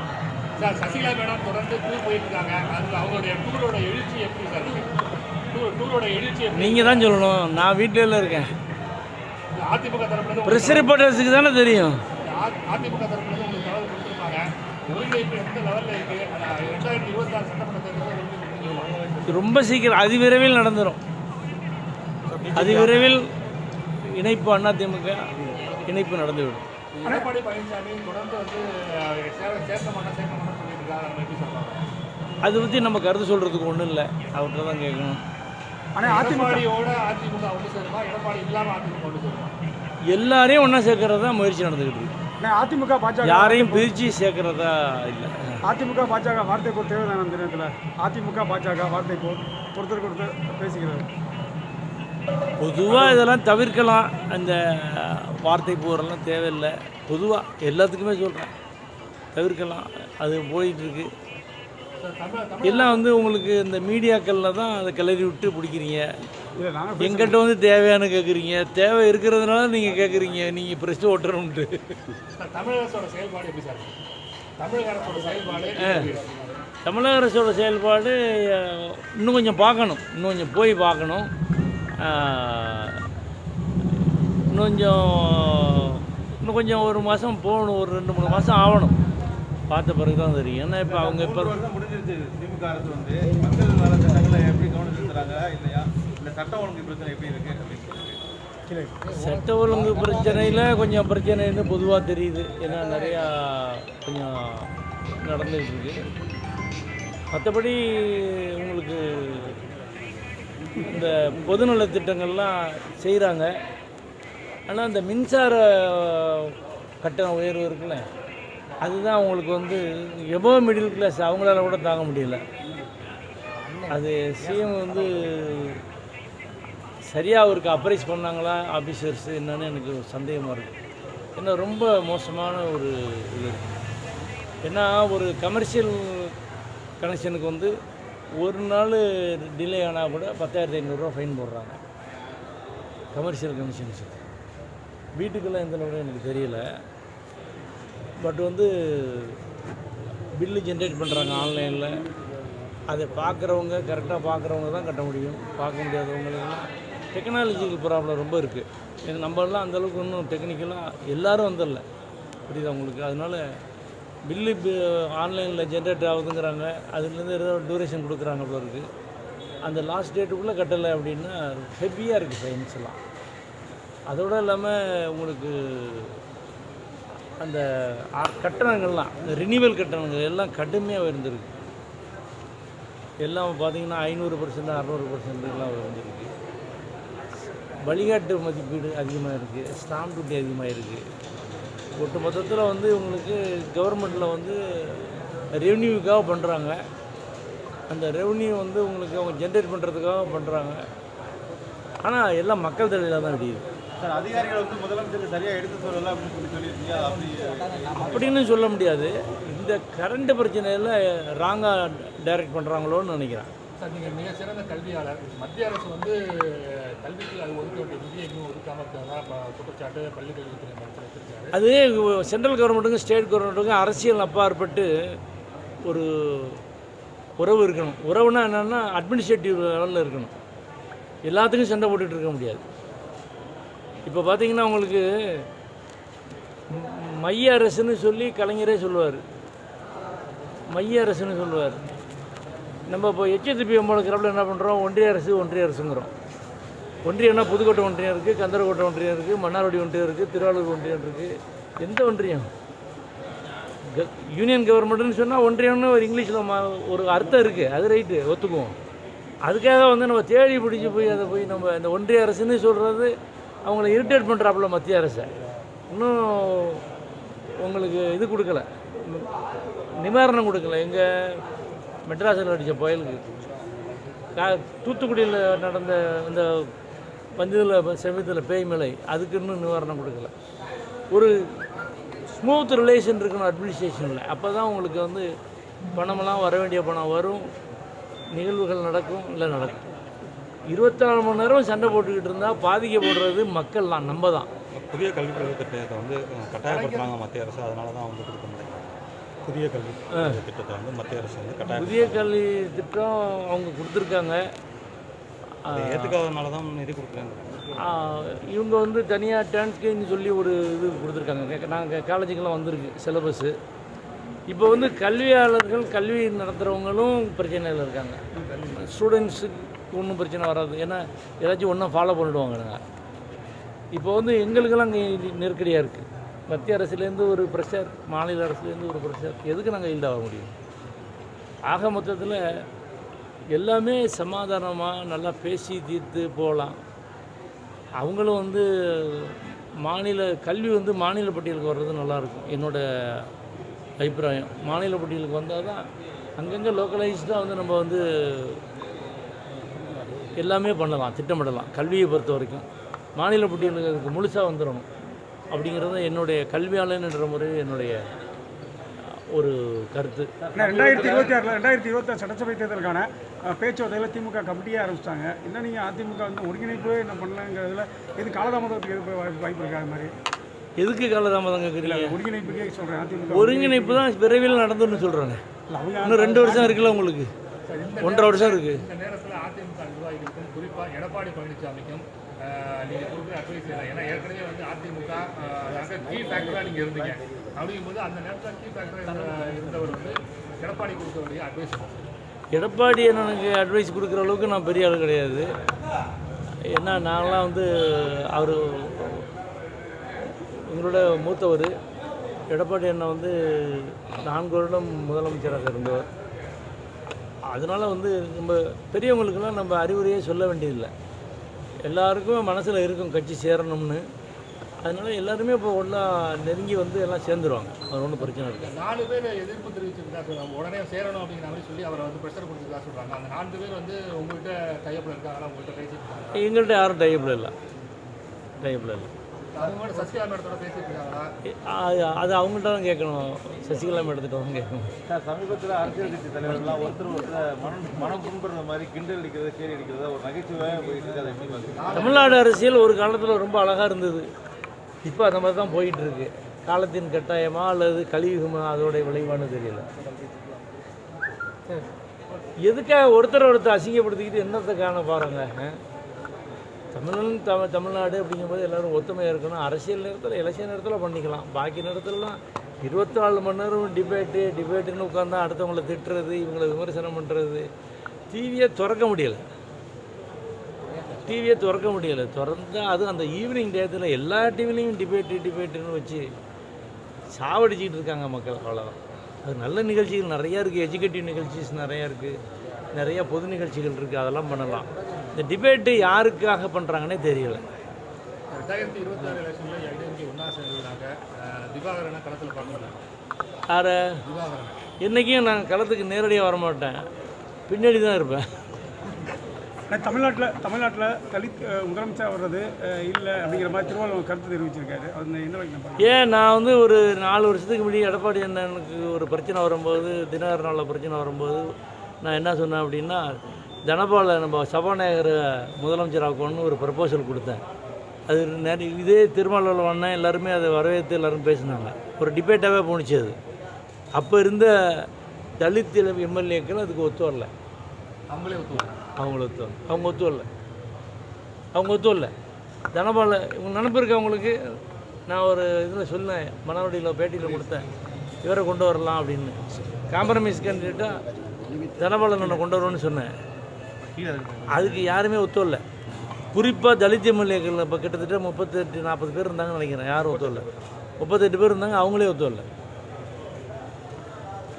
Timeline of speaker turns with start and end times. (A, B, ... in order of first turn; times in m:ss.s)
0:00.6-0:07.1 A
0:06.5-0:08.5 B
0:09.5-0:11.0 A
0:10.4-0:12.0 B
0:12.2-0:19.5 A
0:19.3-0:21.0 B
0:22.3-0:23.1 C
0:22.5-0:23.2 B
0:24.0-0:26.6 B
0:26.9-0:31.9 A
0:32.4-0:35.2 B
0:36.0-0:36.7 D
0:36.0-0:39.6 A
0:40.1-0:42.1 B
0:42.4-0:43.9 D
0:43.2-0:45.6 B
0:45.7-0:51.1 D
0:52.6-0:58.5 B
0:52.9-0:53.2 D
0:59.3-1:01.1 B
1:02.0-1:03.0 A
1:02.6-1:06.1 B
1:06.6-1:07.4 D
1:07.0-1:12.0 B
1:12.4-1:14.0 A
1:14.6-1:16.6 A
1:15.8-1:16.1 B
1:16.8-1:21.3 B
1:22.0-1:23.1 B
1:24.4-1:29.0 B
1:29.7-1:31.6 B
1:30.8-1:38.2 E
1:38.7-1:39.0 D
1:39.0-1:40.1 A
1:39.1-1:46.0 B
1:47.3-1:49.6 B
1:50.8-1:53.5 B
1:54.7-1:58.1 B
1:58.8-2:02.4 B
2:03.9-2:05.8 B
2:07.0-2:10.8 B
2:11.4-2:13.8 B
2:14.7-2:16.4 B
2:17.0-2:17.7 B
2:18.4-2:21.8 B
2:23.1-2:24.2 B
2:25.2-2:26.7 B
2:28.2-2:29.4 B
2:30.3-2:32.0 B
2:32.9-2:41.8 B
2:42.5-2:43.4 B
2:44.2-2:48.9 B
2:49.6-2:53.0 B
2:54.1-2:56.2 B
2:57.4-3:01.5 B
3:03.2-3:06.3 B
3:07.8-3:11.0 B
3:12.0-3:16.8 B
3:17.9-3:20.8 B
3:22.0-3:23.6 B
3:24.0-3:28.2 E
3:28.0-3:33.5 B
3:33.8-3:41.5 A
3:41.5-3:45.2 B
3:45.8-3:46.6 B
3:47.4-3:50.3 B
3:51.2-3:52.6 B
3:54.0-3:55.4 B
3:56.7-3:59.2 B
4:00.7-4:01.8 B
4:02.9-4:06.1 B
4:07.0-4:12.5 B
4:13.8-4:18.8 B
4:19.4-4:23.1 B
4:23.6-4:25.3 B
4:25.9-4:26.8 B
4:27.6-4:29.3 B
4:29.9-4:31.4 B
4:32.1-4:33.3 B
4:34.3-4:36.7 B
4:37.4-4:40.3 B
4:41.1-4:41.6 B
4:42.2-4:45.3 B
4:45.9-4:47.5 B
4:48.3-4:49.8 B
4:50.7-4:54.5 B
4:54.8-5:02.3 C
4:56.7-4:57.1 A
5:00.1-5:00.4 B
5:01.7-5:04.4 B
5:05.6-5:06.2 B
5:05.7-5:07.8 C
5:07.8-5:13.6 B
5:14.5-5:22.8 B
5:23.9-5:30.5 B
5:31.7-5:32.4 B
5:33.5-5:36.8 B
5:38.0-5:43.3 B
5:44.0-5:45.8 B
5:46.4-5:48.6 B
5:50.4-5:54.9 B
5:55.5-5:58.0 B
5:59.0-6:00.3 B
6:00.4-6:01.4 E
6:00.6-6:10.1 D
6:10.8-6:12.2 B
6:11.8-6:14.0 D
6:13.3-6:15.4 B
6:15.7-6:16.8 D
6:16.0-6:17.3 B
6:17.7-6:32.1 A
6:18.0-6:18.8 B
6:32.5-6:35.5 B
6:36.6-6:39.3 B
6:40.4-6:41.7 B
6:42.5-6:46.1 B
6:47.5-6:50.9 B
6:51.8-6:54.0 B
6:54.8-6:58.7 B
6:58.2-7:06.4 A
7:06.4-7:07.5 B
7:08.6-7:09.1 B
7:09.5-7:11.3 A
7:11.5-7:14.9 B
7:15.1-7:22.0 E
7:21.7-7:22.4 A
7:21.9-7:24.3 B
7:25.0-7:29.9 B
7:32.6-7:35.8 B
7:36.9-7:47.7 B
7:48.3-7:49.4 B
7:51.1-7:56.2 B
7:57.3-8:02.4 B
8:02.9-8:07.6 B
8:08.5-8:13.0 A
8:13.7-8:14.2 B
8:14.2-8:14.8 A
8:15.0-8:17.0 B
8:17.7-8:18.5 B
8:19.9-8:26.2 D
8:26.0-8:31.7 B
8:32.2-8:37.6 B
8:38.3-8:43.4 B
8:44.2-8:47.5 B
8:48.3-8:49.0 A
8:49.2-8:50.5 B
8:51.7-8:52.3 B
8:52.9-8:57.9 B
8:57.4-8:57.8 E
8:58.4-9:01.2 B
9:02.0-9:03.3 B
9:04.2-9:05.2 E
9:04.7-9:05.8 B
9:06.5-9:10.6 B
9:11.2-9:12.6 B